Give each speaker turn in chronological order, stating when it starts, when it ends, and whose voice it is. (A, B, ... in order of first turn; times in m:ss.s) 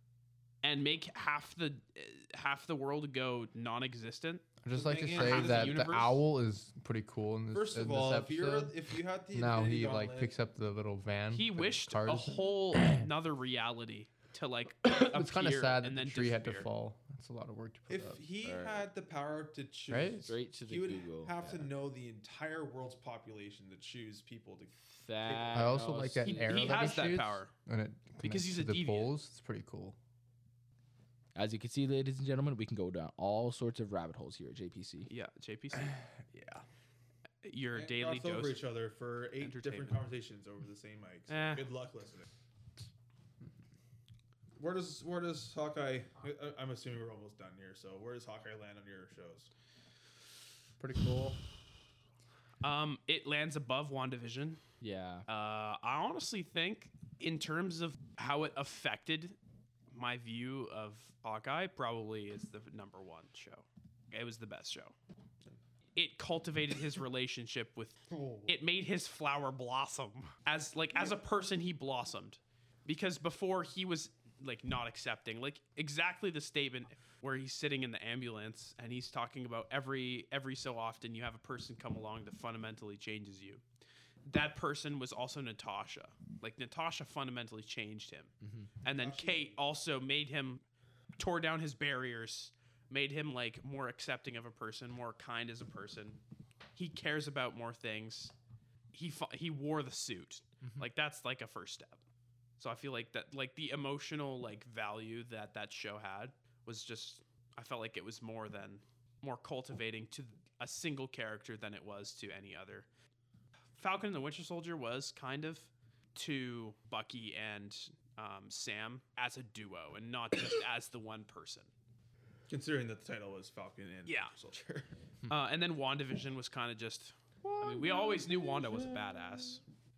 0:00.6-0:04.4 A
0:04.6-0:08.7 B
0:04.7-0:05.9 C
0:05.1-0:06.2 A
0:07.5-0:10.3 C
0:09.3-0:13.1 B
0:11.3-0:16.7 A
0:14.8-0:18.2 B
0:17.9-0:25.8 C
0:18.4-0:18.8 D
0:19.9-0:20.3 B
0:20.2-0:21.7 D
0:24.9-0:26.9 D
0:25.5-0:30.0 B
0:26.2-0:27.5 A
0:28.2-0:29.1 A
0:31.4-0:35.1 D
0:35.1-0:36.0 A
0:35.8-0:36.6 B
0:37.4-0:38.6 A
0:37.7-0:42.3 C
0:39.4-0:40.0 A
0:41.3-0:41.6 A
0:44.6-0:49.5 C
0:50.8-0:51.4 B
0:52.6-0:54.6 A
0:54.8-0:55.2 D
0:55.3-0:59.4 A
0:59.9-1:04.9 A
1:06.0-1:23.6 A
1:08.1-1:08.5 C
1:24.2-1:28.3 A
1:28.4-1:28.7 D
1:28.8-1:30.6 A
1:28.9-1:29.6 C
1:31.2-1:36.2 A
1:36.7-1:38.3 A
1:38.9-1:42.0 A
1:42.6-1:52.9 A
1:53.8-2:01.7 A
2:02.5-2:04.9 C
2:04.1-2:04.3 A
2:05.3-2:09.6 A
2:07.4-2:08.3 B